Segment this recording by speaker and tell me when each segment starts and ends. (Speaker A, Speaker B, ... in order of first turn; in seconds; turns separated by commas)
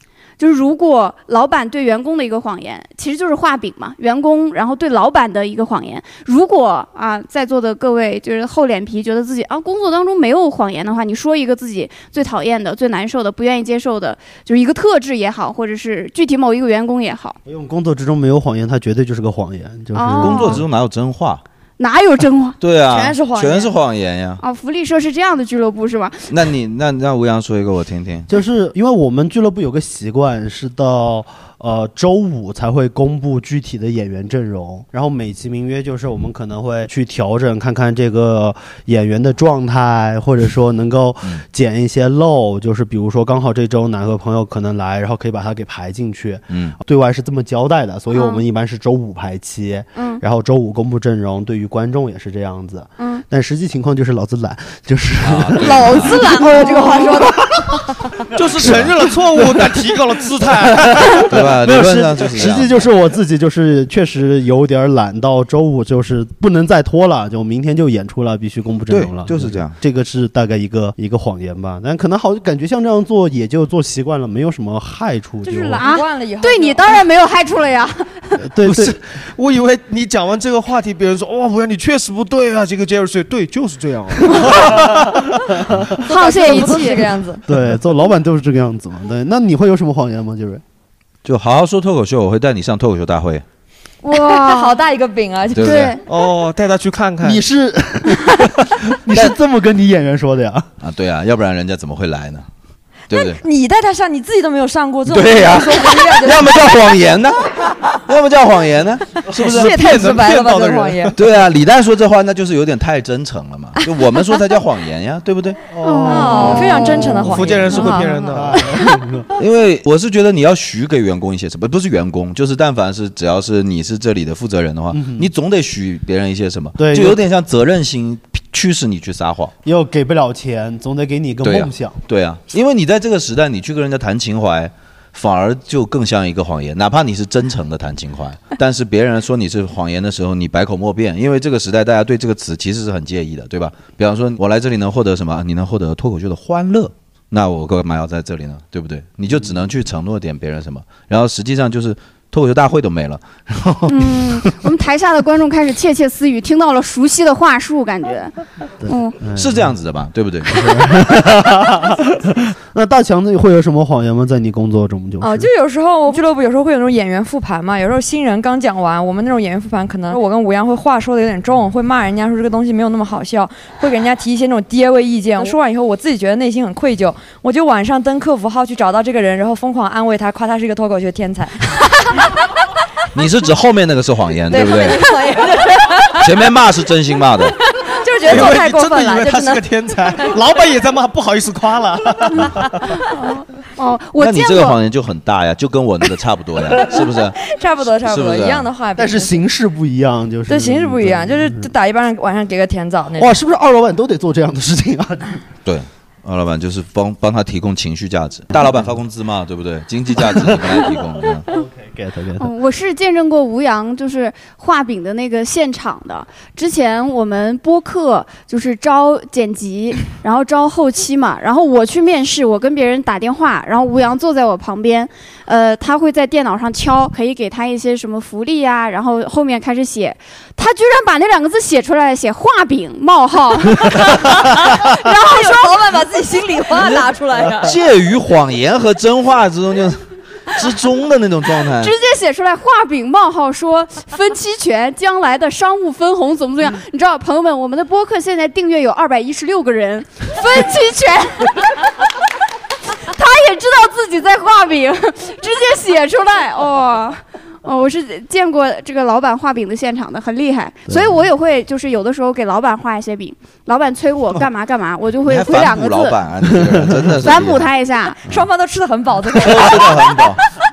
Speaker A: 0.4-17.4, Speaker B: 17.4-20.7, Speaker A: 19.9-20.6, Speaker C: 20.2-21.4, Speaker A: 21.8-22.6, Speaker C: 22.6-24.4, Speaker D: 22.9-23.7, Speaker A: 24.4-26.3, Speaker C: 26.3-28.3, Speaker B: 28.3-57.7, Speaker C: 46.5-46.8, Speaker A: 48.1-48.4, Speaker A: 50.0-50.2, Speaker C: 55.2-56.2, Speaker D: 55.6-57.4, Speaker A: 56.3-57.2, Speaker E: 58.3-61.2, Speaker B: 58.5-59.9, Speaker C: 58.6-58.9, Speaker B: 60.6-75.8, Speaker C: 61.3-62.9, Speaker C: 68.9-69.8, Speaker D: 75.4-76.8, Speaker A: 75.8-78.4, Speaker B: 78.4-79.0, Speaker E: 78.7-85.3, Speaker A: 86.0-87.1, Speaker D: 86.1-87.5, Speaker B: 87.5-90.6, Speaker C: 91.2-93.4, Speaker A: 94.0-94.7, Speaker D: 94.1-95.8, Speaker C: 95.5-96.0, Speaker A: 95.6-96.0, Speaker E: 96.1-97.4, Speaker B: 97.2-100.7, Speaker C: 100.8-102.5, Speaker C: 103.1-103.4, Speaker D: 103.1-106.5, Speaker C: 105.1-109.8, Speaker E: 109.3-111.2, Speaker D: 109.5-111.2, Speaker C: 111.2-115.6, Speaker B: 115.7-119.3, Speaker A: 115.8-117.0, Speaker D: 116.0-118.1, Speaker E: 117.2-118.6, Speaker C: 119.4-129.5, Speaker B: 124.9-125.3, Speaker B: 126.8-127.2, Speaker B: 129.6-132.0, Speaker C: 131.4-154.0, Speaker A: 153.9-159.2, Speaker B: 158.8-159.7, Speaker C: 159.4-160.8, Speaker B: 160.4-165.5, Speaker D: 165.2-181.8, Speaker C: 183.1-185.0, Speaker D: 184.5-186.3, Speaker C: 186.2-187.6, Speaker D: 187.8-189.6, Speaker E: 188.2-192.4, Speaker A: 193.1-194.8, Speaker C: 194.2-197.4, Speaker D: 197.4-199.3, Speaker C: 198.0-198.7, Speaker B: 199.0-201.7, Speaker D: 200.5-203.4, Speaker B: 203.2-205.4, Speaker C: 205.7-211.5, Speaker B: 210.4-212.5, Speaker A: 212.4-235.9, Speaker D: 235.0-237.8, Speaker C: 237.6-241.9, Speaker A: 241.8-251.8, Speaker A: 253.0-266.2, Speaker B: 260.9-261.2, Speaker C: 265.3-267.7, Speaker A: 267.2-268.2, Speaker D: 268.2-270.0, Speaker C: 269.4-270.4